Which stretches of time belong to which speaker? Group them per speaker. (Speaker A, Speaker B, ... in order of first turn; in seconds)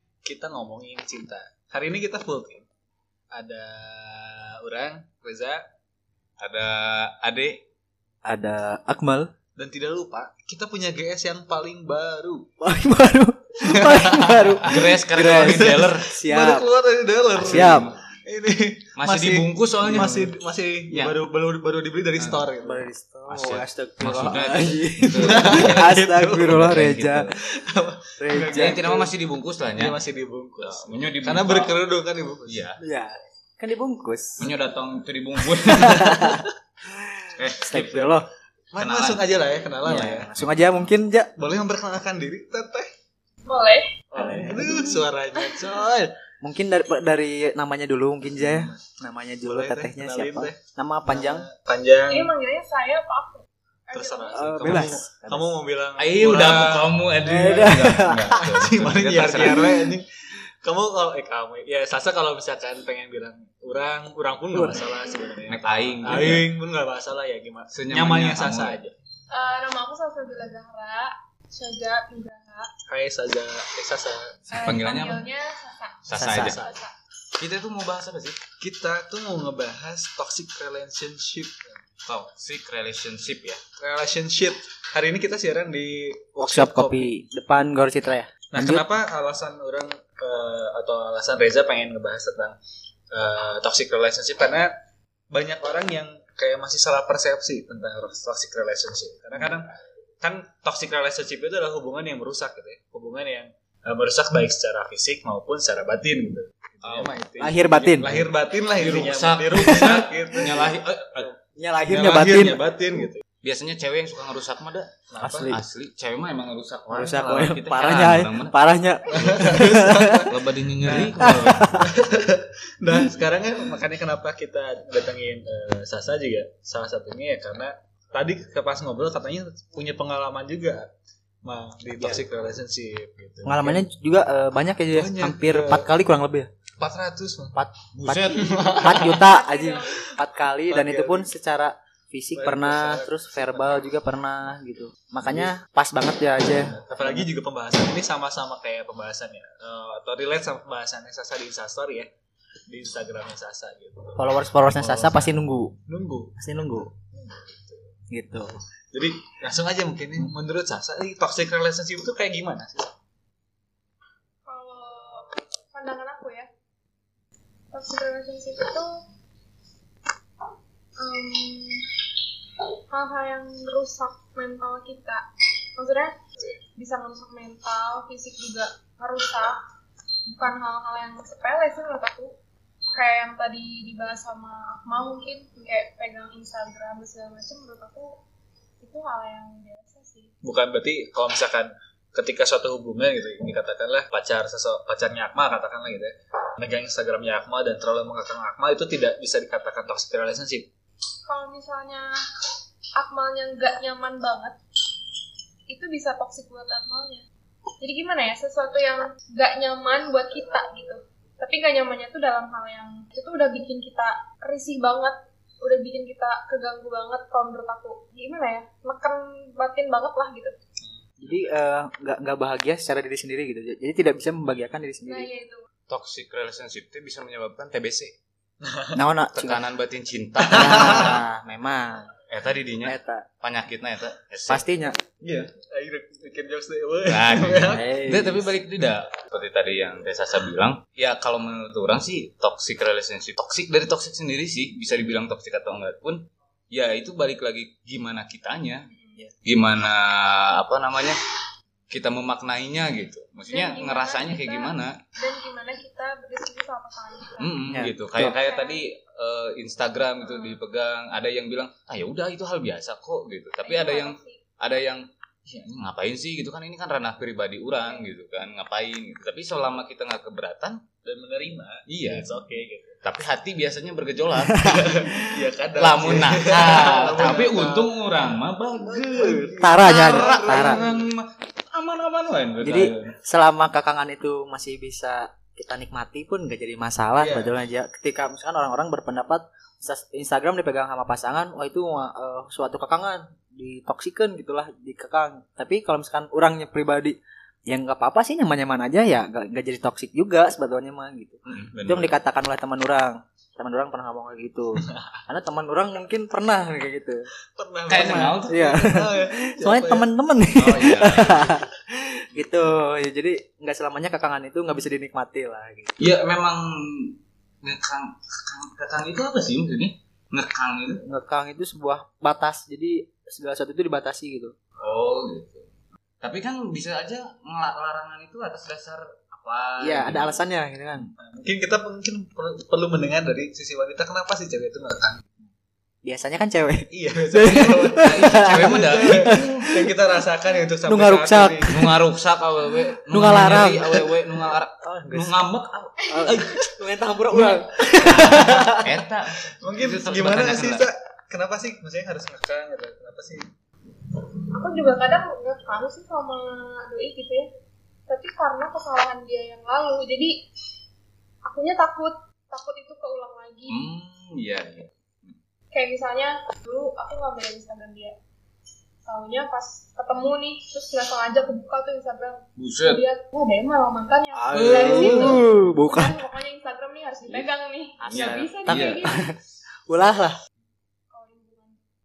Speaker A: 0.2-2.6, 3.3-5.6, 9.6-12.5, 13.6-22.9, 25.1-26.7, 27.4-29.1, 29.8-32.6, 38.7-40.3, 41.4-42.9, 44.1-46.2, 48.3-48.8, 49.4-52.3, 53.9-57.0, 58.4-68.9, 72.9-74.6, 76.2-76.5, 78.6-81.8, 83.8-87.1, 88.5-92.5, 93.1-94.7, 95.3-111.3, 111.9-113.2, 115.1-115.5, 119.1-130.9, 131.4-133.8, 134.9-135.9, 136.8-139.2, 140.7-141.3, 142.3-143.9, 146.6-152.1, 152.7-156.4, 156.9-157.9, 158.9-162.9, 190.4-200.7, 228.6-229.0, 230.5-231.2, 235.3-237.8, 271.0-273.0, 274.6-278.1, 278.8-281.1, 287.2-287.6, 304.8-305.2, 307.5-310.1, 331.2-335.2, 336.9-341.8, 349.6-353.5
Speaker B: 6.4-7.6, 14.6-16.1, 17.3-18.0, 19.0-20.2, 20.9-21.2, 22.2-22.4, 23.3-27.4, 28.3-30.0, 30.6-31.8, 32.5-32.8, 34.4-36.3, 37.4-38.2, 38.8-40.6, 56.0-59.8, 65.5-66.5, 67.7-68.8, 74.6-75.2, 76.0-76.6, 77.4-78.4, 82.0-83.6, 106.8-111.3, 113.4-118.6, 120.3-121.8, 137.9-139.1, 225.9-228.1, 229.3-231.2, 232.3-234.6, 237.1-248.9, 249.4-251.2, 251.9-255.0, 257.4-270.8, 271.9-272.4, 273.0-275.1, 275.8-283.1, 301.4-302.1, 307.9-308.7, 310.5-311.5, 316.0-321.0, 324.8-325.7, 326.2-330.4, 338.0-339.6, 341.7-346.7, 347.3-350.9, 363.7-365.4, 372.6-373.0, 374.5-375.4, 378.0-379.1
Speaker C: 8.2-9.3, 12.6-16.7, 17.4-17.9, 19.9-20.3, 22.6-27.3, 28.2-28.9, 32.8-34.5, 35.6-38.3, 39.9-41.3, 44.2-45.0, 46.4-51.5, 54.3-55.4, 57.2-58.7, 59.4-59.8, 64.5-64.9, 76.1-76.7, 86.4-88.9, 107.4-108.1, 109.5-110.0, 111.6-113.1, 115.2-115.6, 116.9-122.0, 131.9-132.2, 133.4-136.5, 137.6-147.3, 154.2-155.8, 156.4-156.9, 158.1-158.6, 221.2-225.3, 228.9-229.6, 230.5-232.1, 232.8-233.3, 234.5-235.0, 237.7-238.5, 257.7-258.4, 274.4-275.1, 279.6-280.8, 282.6-297.1, 297.7-307.3, 308.5-315.9, 321.0-324.5, 329.8-331.1, 336.0-339.9, 340.9-342.0, 343.1-344.2, 344.8-345.4, 346.1-349.0, 374.3-376.2, 378.1-380.4
Speaker D: 43.5-43.9, 52.1-54.9, 69.3-72.7, 74.5-76.9, 139.1-140.1, 164.4-166.5, 167.7-169.0, 171.0-171.9, 172.9-175.2, 175.8-176.1, 176.8-179.6, 180.3-182.3, 182.9-188.2, 188.8-190.3, 201.3-202.1, 203.0-204.6, 205.7-207.2, 207.8-220.6, 225.1-225.6, 248.9-249.2, 253.5-257.5, 258.3-258.8, 260.2-260.6, 263.6-264.4, 267.8-268.1, 354.5-357.5, 358.1-360.4, 361.4-363.9, 365.7-368.1, 369.1-379.2, 381.1-381.8